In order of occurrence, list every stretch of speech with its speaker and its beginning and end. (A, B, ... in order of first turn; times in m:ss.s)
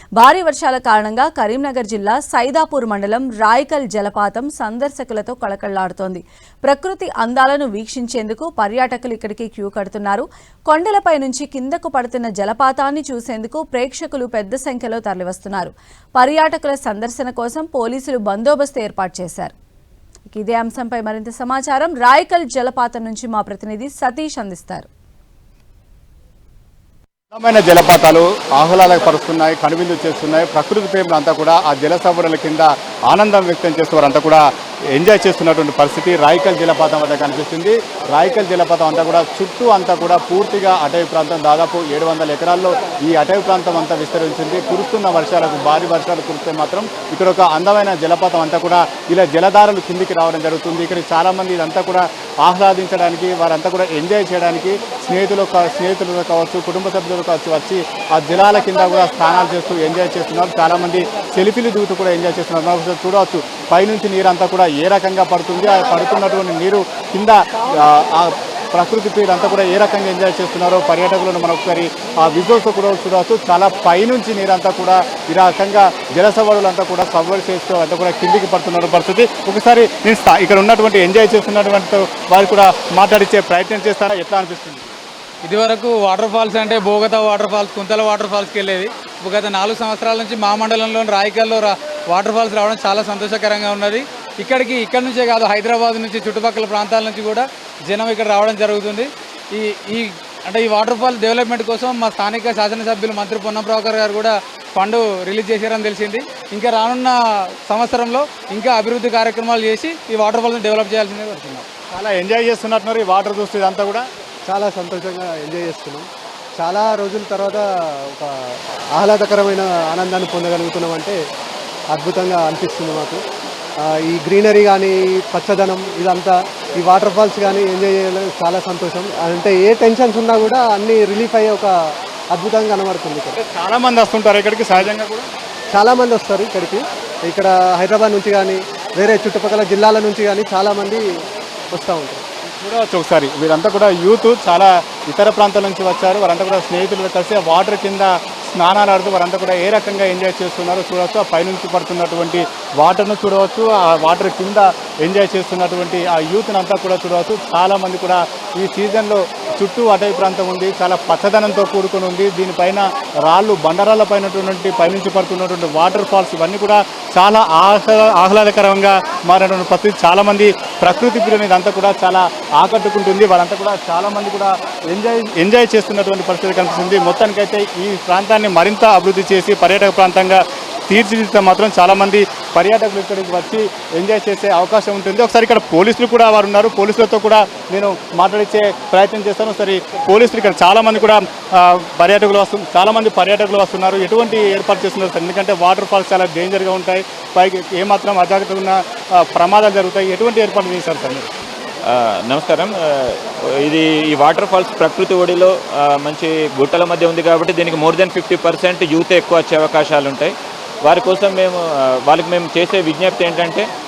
0:00.2-0:19.5 A
0:20.3-0:24.9 A
0:27.3-1:24.9 B
1:25.4-1:51.6 C
1:51.9-1:54.0 B
1:54.5-1:56.1 D
1:56.6-2:01.2 D
2:01.9-2:03.2 D
2:03.8-2:11.7 D
2:12.3-2:13.4 D
2:13.4-2:15.3 B
2:15.7-2:21.1 D
2:21.7-2:22.2 D
2:22.6-3:21.3 B
3:21.8-3:30.3 E
3:30.8-3:33.6 E